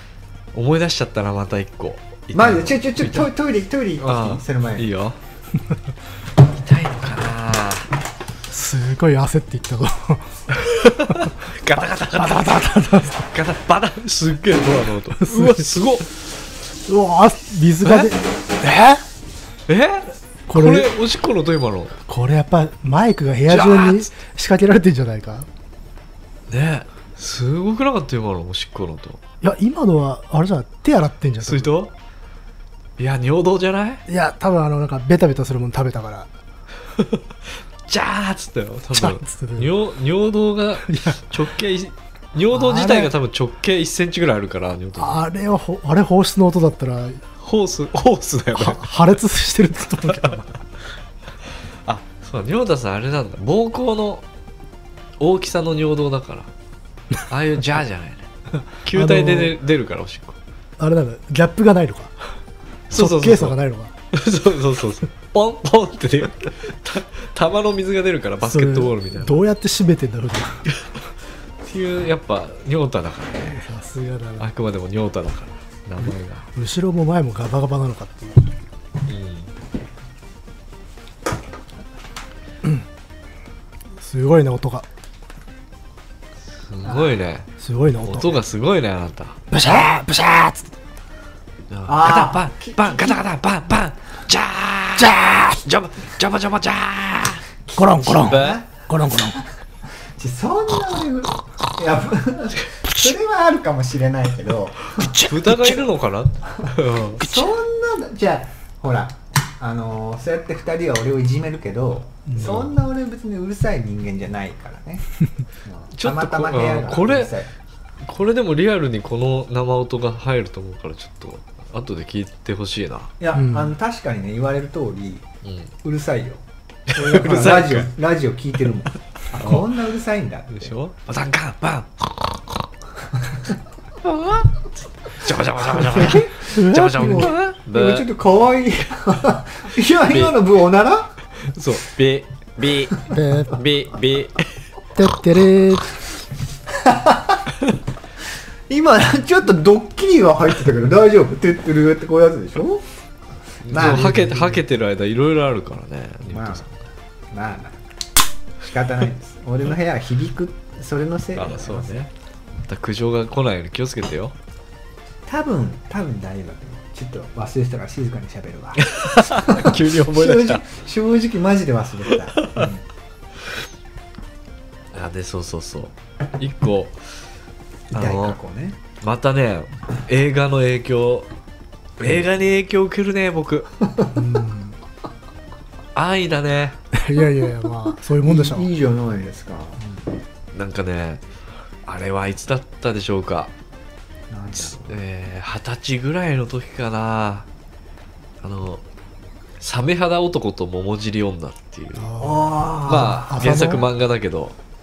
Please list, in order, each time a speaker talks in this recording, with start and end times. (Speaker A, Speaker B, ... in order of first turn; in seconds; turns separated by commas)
Speaker A: 0.5-3.3, Speaker B: 2.3-4.9, Speaker A: 4.0-5.2, Speaker A: 6.5-7.9, Speaker C: 8.5-10.3, Speaker A: 10.5-16.1, Speaker C: 11.1-11.3, Speaker C: 12.1-13.3, Speaker C: 15.2-15.7, Speaker C: 16.9-19.0, Speaker A: 17.8-18.1, Speaker A: 19.7-21.9, Speaker C: 20.5-20.9, Speaker C: 22.1-25.5, Speaker A: 23.5-24.1, Speaker A: 26.5-29.2, Speaker C: 29.4-31.8, Speaker A: 31.4-31.9, Speaker A: 33.0-34.0, Speaker C: 34.1-36.3, Speaker A: 37.0-37.2, Speaker A: 37.9-45.2, Speaker C: 38.9-39.7, Speaker C: 40.9-41.2, Speaker C: 42.5-43.1, Speaker C: 45.0-47.2, Speaker A: 47.4-48.9, Speaker C: 48.5-50.6, Speaker A: 51.9-54.2, Speaker A: 55.2-56.5, Speaker A: 57.3-58.3, Speaker A: 58.8-60.4, Speaker C: 58.9-59.5, Speaker C: 60.8-62.1, Speaker A: 62.9-63.6, Speaker C: 63.0-63.9, Speaker A: 64.1-69.4, Speaker C: 68.4-70.7, Speaker A: 71.7-73.6, Speaker C: 73.5-74.5, Speaker A: 74.4-76.5, Speaker C: 76.5-78.5, Speaker A: 79.1-79.5, Speaker C: 84.0-84.8, Speaker A: 86.6-87.5, Speaker B: 86.8-87.2, Speaker C: 87.6-88.4, Speaker A: 88.0-89.4, Speaker C: 89.5-90.7, Speaker A: 91.7-97.4, Speaker B: 91.9-93.2, Speaker C: 95.0-95.6, Speaker B: 97.7-98.7, Speaker C: 97.8-99.4, Speaker A: 98.2-98.6, Speaker B: 100.1-105.1, Speaker C: 105.0-105.9, Speaker A: 105.1-107.3, Speaker B: 106.6-115.0, Speaker C: 107.2-107.5, Speaker C: 112.3-112.5, Speaker A: 112.4-112.7, Speaker B: 115.6-117.5, Speaker A: 116.0-117.4, Speaker A: 118.0-123.1, Speaker B: 123.2-125.3, Speaker C: 123.3-123.7, Speaker A: 125.4-125.7, Speaker B: 125.8-126.4, Speaker A: 126.9-127.9, Speaker B: 127.0-130.7, Speaker A: 129.4-129.7, Speaker A: 130.5-132.4, Speaker A: 134.1-138.1, Speaker B: 135.8-141.1, Speaker C: 136.4-137.3, Speaker A: 140.1-140.4, Speaker A: 141.4-144.5, Speaker C: 143.1-143.6, Speaker C: 144.9-146.0, Speaker B: 146.8-147.4, Speaker B: 148.7-152.8, Speaker A: 153.6-156.7, Speaker B: 153.7-154.6, Speaker B: 156.3-156.7, Speaker B: 157.3-157.8, Speaker B: 158.6-162.0, Speaker A: 161.3-162.1, Speaker A: 162.7-164.3, Speaker B: 165.3-172.8, Speaker A: 168.8-170.6, Speaker A: 172.3-172.7, Speaker A: 174.9-177.0, Speaker B: 177.9-178.8, Speaker A: 177.9-178.4, Speaker A: 179.0-181.3, Speaker A: 182.0-183.7, Speaker C: 184.1-184.8, Speaker A: 185.9-186.8, Speaker C: 186.9-188.7, Speaker B: 188.2-189.9, Speaker A: 190.5-191.2, Speaker A: 191.9-193.5, Speaker B: 194.3-195.0, Speaker A: 194.6-197.5, Speaker A: 198.4-198.8, Speaker A: 199.6-202.1, Speaker C: 202.0-203.8, Speaker B: 202.2-203.9, Speaker A: 202.9-204.6